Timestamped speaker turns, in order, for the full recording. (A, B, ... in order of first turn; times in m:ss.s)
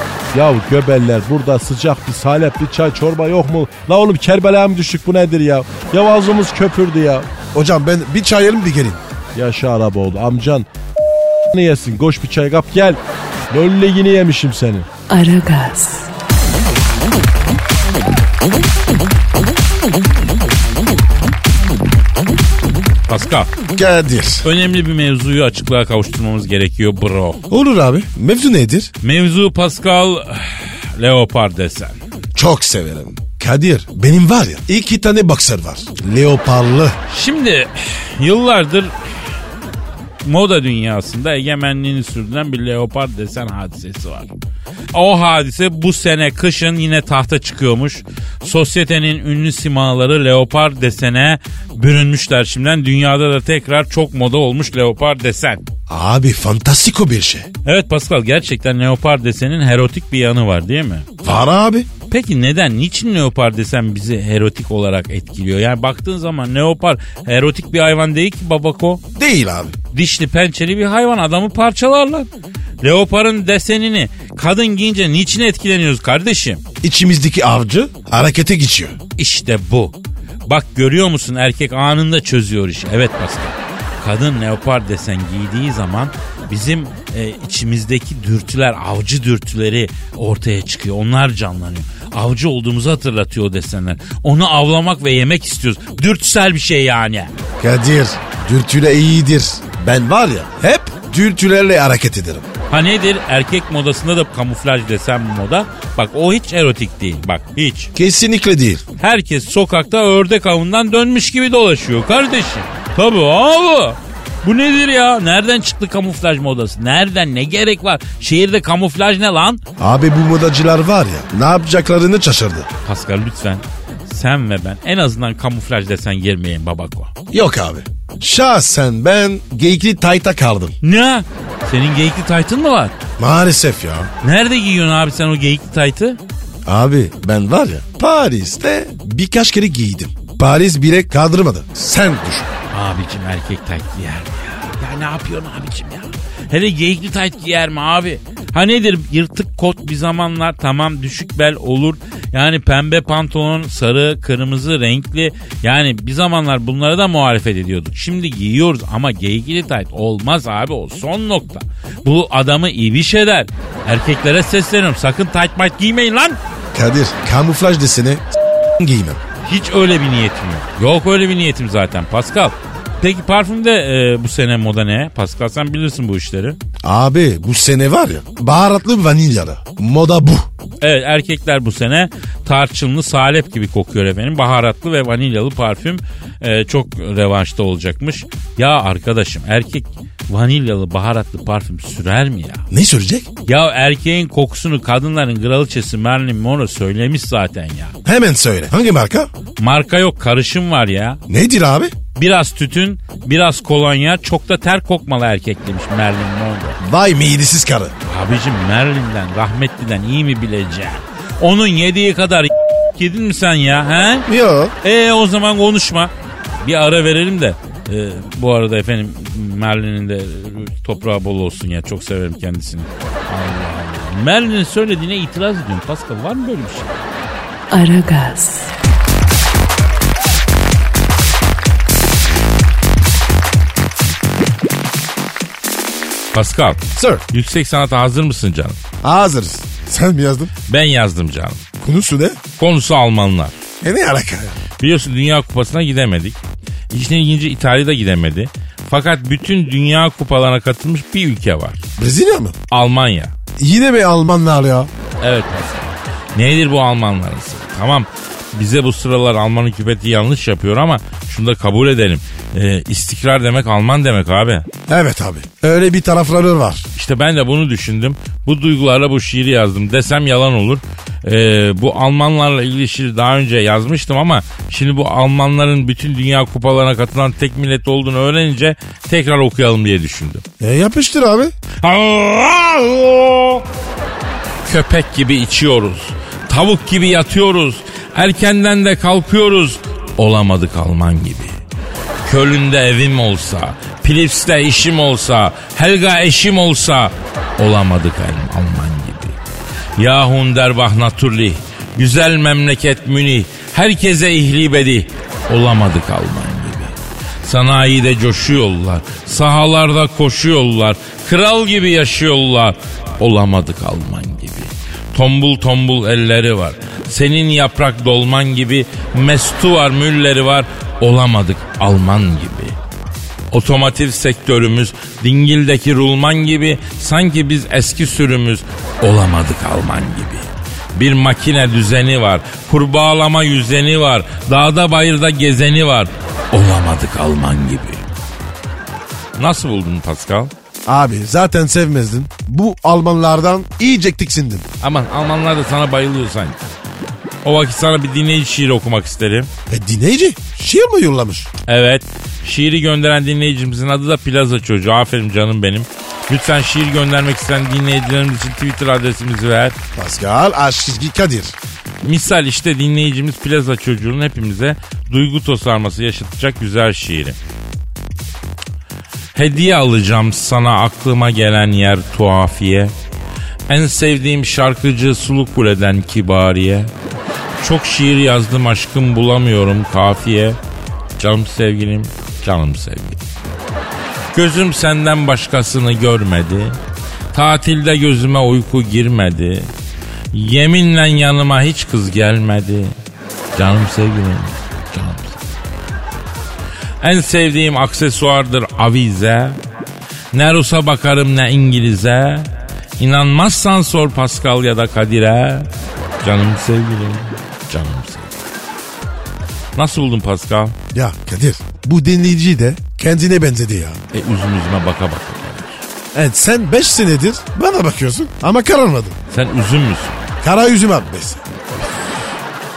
0:00.3-0:07.3 A
0:07.5-0:09.0 B
0:09.4-0:10.7 A
0:11.5-0:13.0 A
0:13.5-0:14.9 A
0:15.1-0:16.1 C
0:23.1-0:23.5 D
0:23.7-0:24.5 B
0:24.4-0:27.4 D
0:27.5-0:28.9 B
0:29.0-0:32.0 D
0:32.4-0:37.0 B
0:37.1-0:39.0 D
0:40.2-0:44.3 D
0:44.9-0:55.6 D
0:55.9-0:57.5 B
0:57.6-1:01.1 D
1:01.2-1:01.9 B
1:02.1-1:09.0 D
1:09.2-1:09.8 B
1:09.9-1:12.3 D
1:12.8-1:16.6 D
1:16.8-1:19.0 B
1:19.2-1:37.3 D
1:37.6-1:42.5 B
1:42.7-1:47.9 D
1:48.0-1:48.8 B
1:49.0-1:59.6 D
1:59.8-2:02.7 B
2:02.8-2:07.1 D
2:07.3-2:10.8 B
2:10.8-2:13.0 D
2:13.2-2:14.1 B
2:14.2-2:16.2 D
2:16.7-2:22.5 B
2:22.7-2:46.4 D
2:46.7-2:49.2 B
2:49.4-2:56.6 D
2:56.8-3:00.5 B
3:00.8-3:12.6 D
3:12.7-3:13.3 B
3:13.5-3:18.0 D
3:18.0-3:19.3 B
3:19.6-3:21.2 D
3:21.3-3:22.0 B
3:22.2-3:26.8 D
3:26.8-3:27.9 B
3:28.1-3:34.3 D
3:34.3-3:34.8 B
3:34.8-3:47.0 D
3:47.7-3:48.7 C
3:56.3-3:58.8 D
3:57.0-3:57.2 B
3:59.0-4:00.5 B
4:00.7-4:01.6 D
4:01.8-4:02.4 B
4:02.6-4:03.6 D
4:03.8-4:04.6 B
4:04.8-4:06.4 D
4:06.9-4:11.8 D
4:12.0-4:12.6 B
4:12.7-4:13.3 D
4:13.6-4:14.9 B
4:15.2-4:24.7 D
4:24.9-4:26.9 B
4:27.0-4:40.4 D
4:40.6-4:41.6 B
4:41.8-4:43.7 D
4:44.7-4:51.5 D
4:52.2-4:59.4 D
5:00.0-5:22.8 D
5:23.5-5:38.0 D
5:39.4-5:40.5 D
5:40.9-5:44.7 B
5:44.8-5:46.6 D
5:47.4-5:49.5 D
5:49.7-5:51.5 B
5:51.7-5:59.8 D
6:00.0-6:01.6 B
6:02.0-6:07.4 D
6:09.4-6:12.9 D
6:13.7-6:16.9 D
6:17.6-6:20.6 D
6:21.2-6:23.2 D
6:24.3-6:26.8 D
6:27.3-6:29.7 D
6:30.3-6:33.0 D
6:33.6-6:35.4 D
6:37.0-6:39.6 D
6:40.3-6:45.7 D
6:46.2-6:48.5 D
6:49.8-6:50.8 D
6:50.9-6:54.0 B
6:54.1-6:55.9 D
6:56.1-6:59.2 B
6:59.3-7:00.3 D
7:00.4-7:01.9 B